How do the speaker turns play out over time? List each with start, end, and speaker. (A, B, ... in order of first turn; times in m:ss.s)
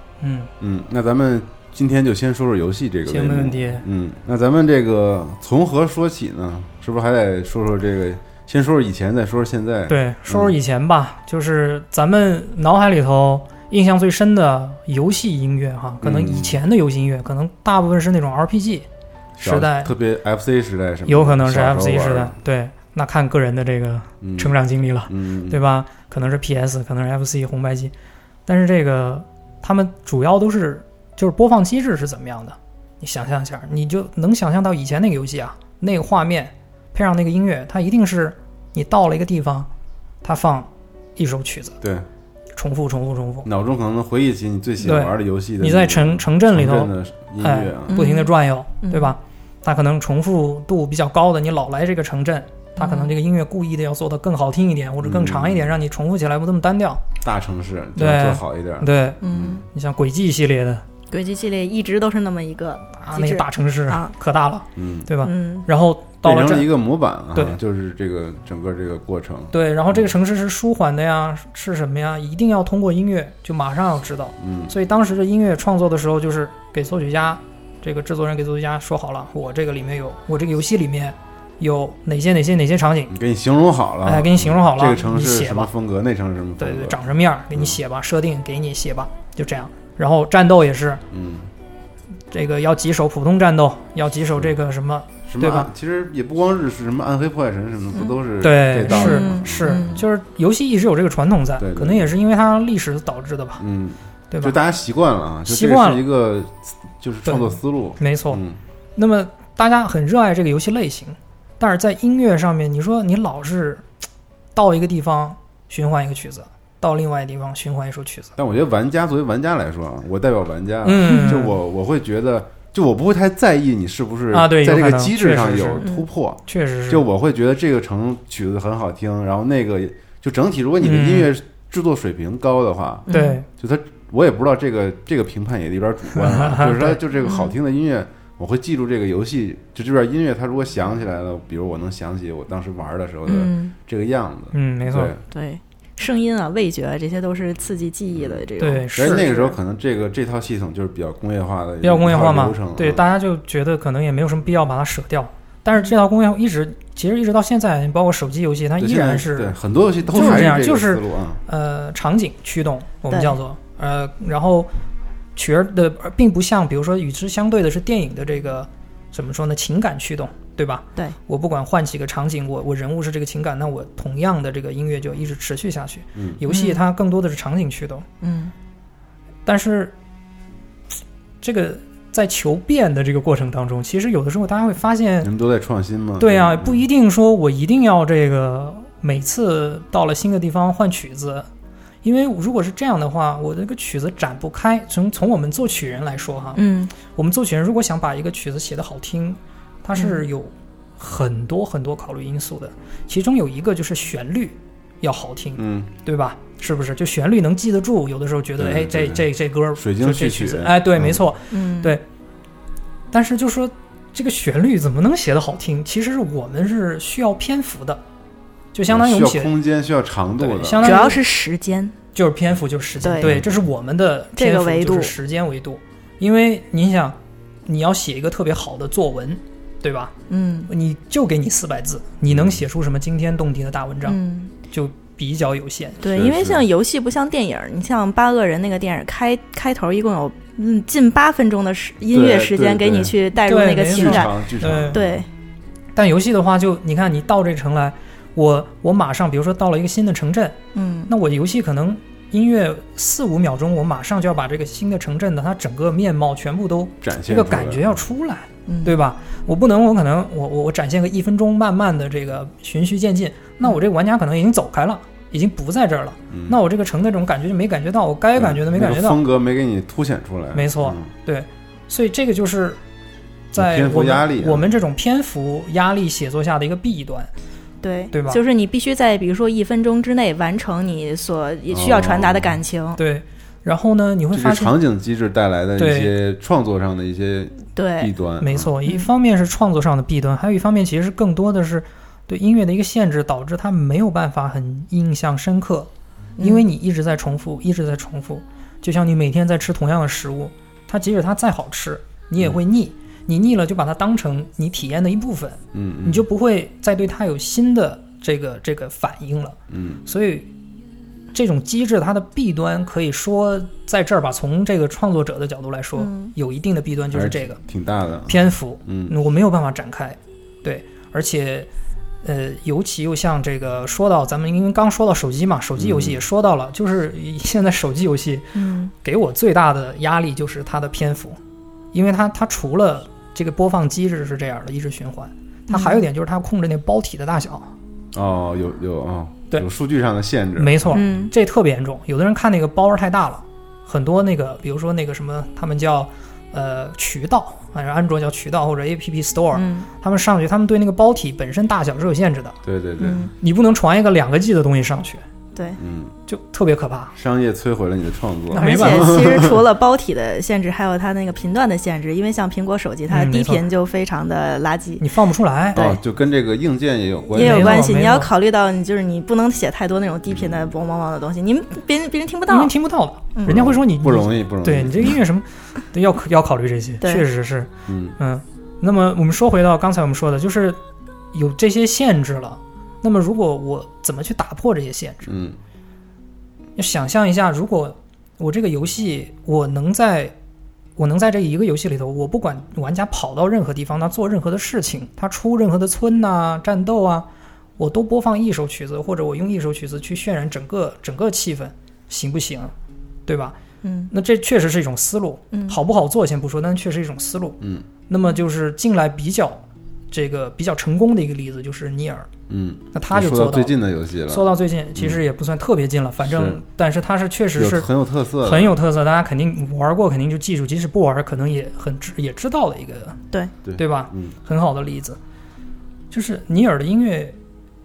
0:00.2-0:00.5 A
0:00.6-0:10.5 B
0:03.1-0:03.8 A
0:09.9-0:18.8 A
0:16.0-0:16.6 B
0:19.4-0:19.9 A
0:19.4-0:22.4 B
0:21.1-0:27.9 A
0:24.2-0:24.6 B
0:25.1-0:25.6 B
0:28.5-0:39.7 A
0:40.2-0:41.8 A
0:41.8-0:42.0 B
0:42.6-0:43.5 A
0:43.4-0:48.0 B
0:44.8-0:57.0 A
0:47.9-0:49.1 C
0:52.8-0:53.1 C
0:55.0-0:55.7 B
0:57.2-0:59.6 B
0:58.0-1:00.8 A
0:59.2-0:59.6 C
1:01.1-1:04.1 C
1:03.0-1:06.7 A
1:04.8-1:05.1 B
1:05.2-1:05.7 C
1:06.2-1:10.1 B
1:09.5-1:23.1 A
1:14.4-1:14.7 B
1:23.1-1:27.0 B
1:24.0-1:25.7 A
1:26.6-1:31.0 A
1:31.1-1:31.5 B
1:32.3-1:35.7 A
1:35.2-1:39.8 B
1:38.4-1:43.6 A
1:38.9-1:40.0 C
1:41.6-1:42.1 B
1:43.6-1:48.6 B
1:44.3-1:44.6 A
1:45.4-1:46.0 A
1:47.2-1:48.4 A
1:49.0-1:53.8 A
1:54.5-1:58.3 A
1:58.4-2:25.2 B
2:00.8-2:01.6 A
2:04.3-2:05.9 A
2:05.8-2:06.0 C
2:06.5-2:07.0 A
2:10.8-2:11.3 A
2:13.1-2:13.4 C
2:13.1-2:13.5 A
2:16.1-2:17.0 A
2:17.2-2:17.5 C
2:23.2-2:23.7 C
2:24.5-2:25.1 A
2:25.3-2:29.6 C
2:28.1-2:28.4 B
2:28.6-2:29.3 A
2:29.0-2:33.0 B
2:31.8-2:39.5 A
2:38.8-2:41.4 B
2:40.1-2:44.7 A
2:43.1-2:43.3 C
2:45.3-2:58.0 A
2:56.1-2:56.4 B
2:56.5-2:56.8 C
2:58.2-2:58.5 C
2:59.4-2:59.9 A
3:01.4-3:05.3 A
3:05.2-3:06.8 B
3:06.2-3:11.5 A
3:12.0-3:32.0 A
3:16.6-3:16.9 C
3:20.0-3:20.2 C
3:25.6-3:25.9 B
3:28.6-3:31.2 B
3:31.5-3:32.0 C
3:33.1-3:38.0 A
3:38.7-3:39.5 A
3:38.9-3:41.1 B
3:40.4-3:41.2 A
3:40.8-3:41.9 C
3:42.1-3:50.1 A
3:43.0-3:43.3 C
3:43.2-3:43.6 B
3:44.4-3:45.1 C
3:50.3-3:50.7 C
3:50.7-3:54.2 A
3:52.3-3:52.6 B
3:54.0-3:54.5 C
3:54.7-3:56.0 A
3:56.0-4:05.2 C
3:56.0-3:56.6 B
4:02.1-4:03.1 B
4:03.4-4:05.0 A
4:03.9-4:05.2 B
4:06.0-4:29.2 A
4:10.7-4:11.1 C
4:17.0-4:18.0 B
4:18.7-4:19.0 C
4:26.3-4:26.6 B
4:28.4-4:31.1 B
4:30.5-4:32.8 A
4:33.5-4:37.3 A
4:33.5-4:34.7 B
4:37.8-4:43.0 C
4:38.1-4:38.4 A
4:41.7-4:42.6 B
4:43.0-4:44.7 A
4:44.3-4:48.7 B
4:45.8-4:46.1 A
4:47.8-4:48.1 C
4:48.4-5:10.5 A
4:48.8-4:49.1 C
4:56.4-4:56.6 C
5:05.7-5:06.2 B
5:09.7-5:10.0 B
5:11.3-5:17.6 A
5:16.0-5:16.3 C
5:17.1-5:19.1 B
5:18.3-5:21.7 A
5:22.2-5:31.4 A
5:25.8-5:26.2 B
5:28.5-5:28.9 C
5:31.9-5:37.7 A
5:35.7-5:36.0 C
5:38.1-5:41.2 B
5:40.6-5:52.6 A
5:40.9-5:41.3 C
5:49.5-5:49.9 C
5:52.6-5:53.3 B
5:53.0-5:53.3 C
5:53.4-5:55.2 A
5:55.8-5:56.1 B
5:56.3-5:57.1 A
5:57.1-5:59.6 B
5:58.5-6:05.1 C
5:58.6-5:59.2 A
6:03.1-6:03.6 A
6:05.0-6:06.0 A
6:05.7-6:07.9 B
6:07.3-6:08.3 A
6:07.3-6:12.7 C
6:10.3-6:10.7 B
6:12.5-6:20.8 A
6:13.3-6:13.6 C
6:13.5-6:15.2 B
6:17.9-6:18.2 B
6:21.3-6:25.3 A
6:25.2-6:25.6 B
6:26.8-6:30.3 A
6:31.0-6:37.3 A
6:37.8-6:42.7 A
6:43.3-6:43.6 A
6:43.8-6:44.1 C
6:44.1-6:52.3 A
6:45.5-6:45.8 C
6:47.6-6:47.9 B
6:52.5-6:55.2 B
6:52.9-6:53.7 A
6:54.3-6:57.9 A
6:56.2-6:56.6 B
6:57.5-6:58.8 B
6:58.4-7:03.2 A
7:03.6-7:04.3 B
7:03.8-7:05.2 A
7:06.1-7:07.4 A